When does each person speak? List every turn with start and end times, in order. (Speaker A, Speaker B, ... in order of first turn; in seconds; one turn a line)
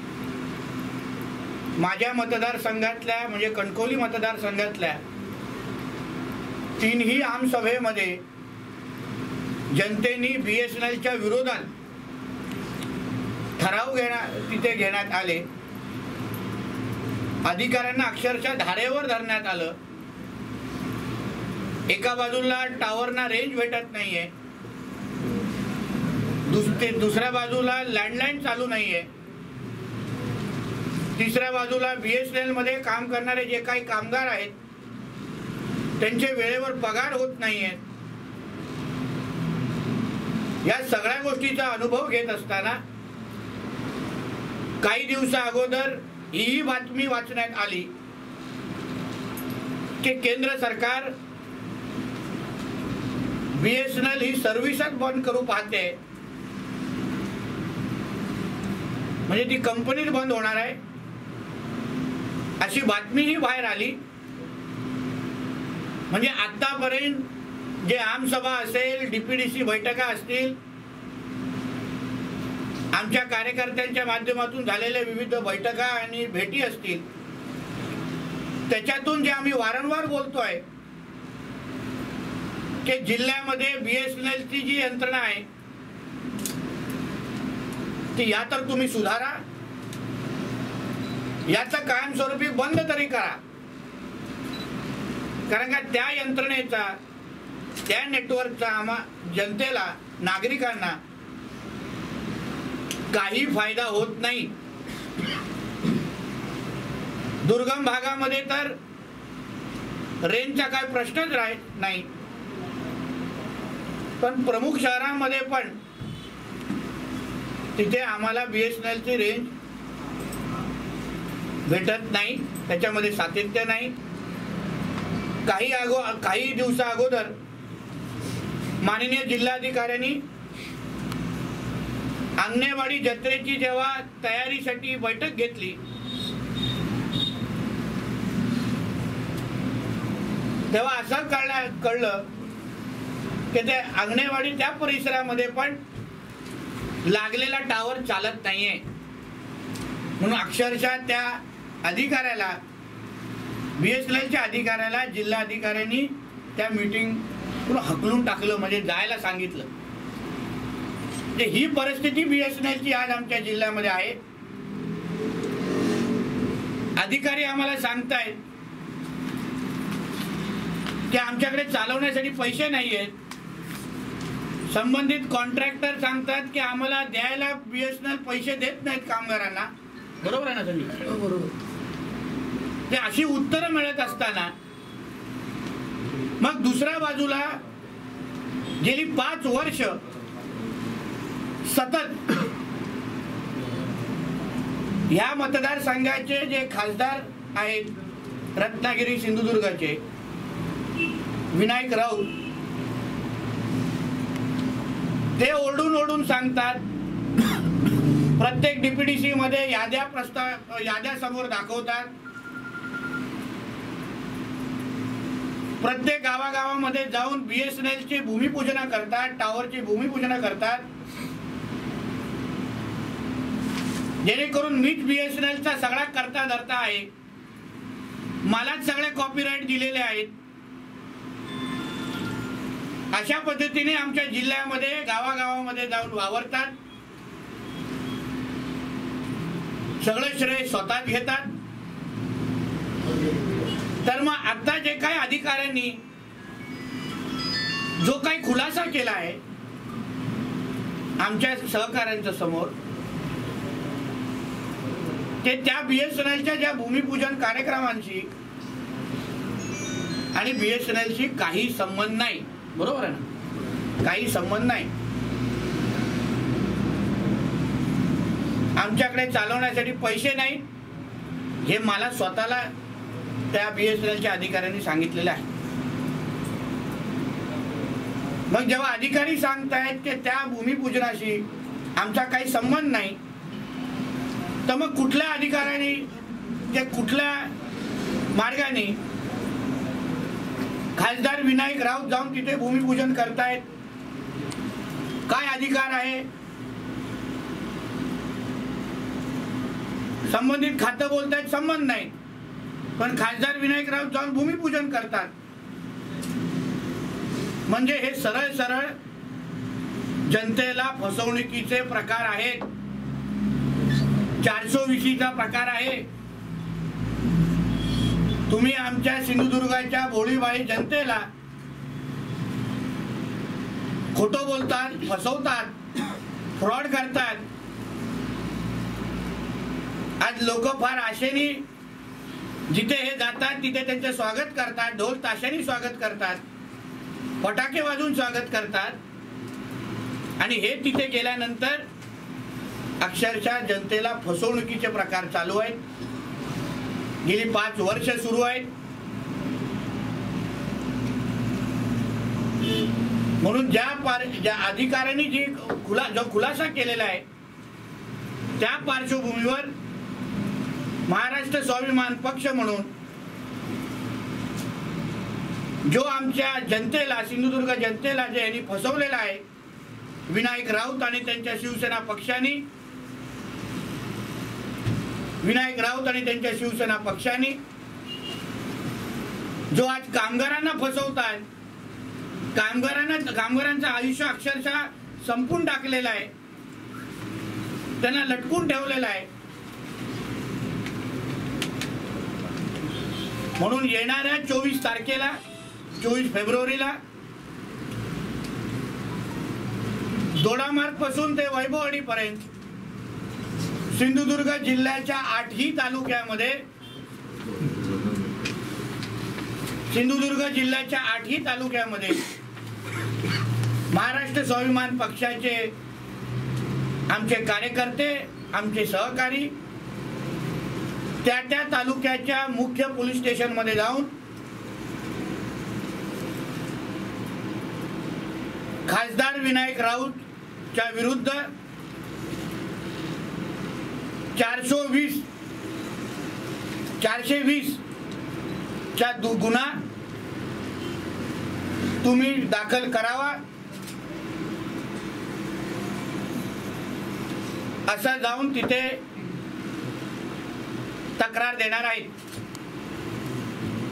Speaker A: 1.8-5.0
Speaker A: 6.8-8.2
Speaker A: 9.7-11.7
Speaker A: 13.6-15.4
Speaker A: 17.4-19.8
Speaker A: 21.9-24.3
Speaker A: 26.4-29.1
Speaker A: 31.1-34.5
Speaker A: 36.0-37.8
Speaker A: 40.6-42.8
Speaker A: 44.8-47.9
Speaker A: 50.0-51.1
Speaker A: 53.5-56.0
Speaker A: 59.3-60.8
Speaker A: 62.6-64.0
Speaker A: 66.1-67.3
Speaker A: 67.8-70.6
Speaker A: 72.9-77.0
Speaker A: 78.7-80.6
Speaker A: 82.8-85.5
Speaker A: 88.1-89.4
Speaker A: 91.5-93.4
Speaker A: 95.5-97.0
Speaker A: 97.8-101.0
Speaker A: 103.1-104.5
Speaker A: 107.4-108.8
Speaker A: 110.2-112.1
Speaker A: 114.2-115.8
Speaker A: 117.7-119.5
Speaker A: 121.7-123.9
Speaker A: 125.5-127.4
Speaker A: 128.8-130.2
Speaker A: 132.4-135.8
Speaker A: 140.7-142.2
Speaker A: 143.5-145.8
Speaker A: 147.0-148.8
Speaker A: 150.2-152.6
Speaker A: 153.8-159.7
Speaker A: 161.3-164.2
Speaker A: 167.0-168.4
Speaker A: 171.1-173.1
Speaker A: 174.7-179.7
Speaker A: 180.2-181.5
Speaker A: 182.9-184.5
Speaker A: 186.4-187.6
Speaker A: 188.8-190.0
Speaker A: 191.6-192.2
Speaker A: 195.1-197.9
Speaker A: 198.6-200.0
Speaker A: 201.5-202.3
Speaker A: 205.4-206.8
Speaker A: 208.4-212.1
Speaker A: 215.8-220.9
Speaker A: 224.2-227.1
Speaker A: 228.4-230.3
Speaker A: 233.1-236.7
Speaker A: 240.0-241.5
Speaker A: 244.0-246.0
Speaker A: 248.0-249.4
Speaker A: 251.2-252.7
Speaker A: 255.4-258.3
Speaker A: 260.3-263.2
Speaker A: 264.0-264.9
Speaker A: 268.8-270.6
Speaker A: 271.6-272.7
Speaker A: 273.5-275.4
Speaker A: 278.5-281.4
Speaker A: 282.0-283.2
Speaker A: 284.6-286.1
Speaker A: 286.7-287.5
Speaker A: 288.3-289.0
Speaker A: 290.9-293.6
Speaker A: 295.3-296.3
Speaker A: 300.3-302.1
Speaker A: 303.0-305.3
Speaker A: 307.7-308.9
Speaker A: 310.2-312.7
Speaker A: 314.4-316.1
Speaker A: 318.5-321.3
Speaker A: 324.1-325.8
Speaker A: 326.6-327.4
Speaker A: 330.2-331.6
Speaker A: 332.7-336.4
Speaker A: 337.4-339.0
Speaker A: 340.4-341.9
Speaker A: 343.0-345.8
Speaker A: 347.2-348.7
Speaker A: 353.4-357.2
Speaker A: 358.6-359.7
Speaker A: 361.1-362.9
Speaker A: 365.8-369.4
Speaker A: 370.3-372.6
Speaker A: 375.4-377.6
Speaker A: 379.7-381.4
Speaker A: 382.5-386.3
Speaker A: 388.0-389.3
Speaker A: 393.6-395.3
Speaker A: 396.0-397.0
Speaker A: 400.3-402.4
Speaker A: 403.9-406.6
Speaker A: 409.9-412.2
Speaker A: 413.9-415.7
Speaker A: 417.1-419.5
Speaker A: 421.2-424.1
Speaker A: 428.9-430.2
Speaker A: 430.7-431.5
Speaker A: 434.4-435.2
Speaker A: 437.0-437.8
Speaker A: 438.9-439.8
Speaker A: 442.0-443.4
Speaker A: 447.9-449.0
Speaker A: 451.2-452.1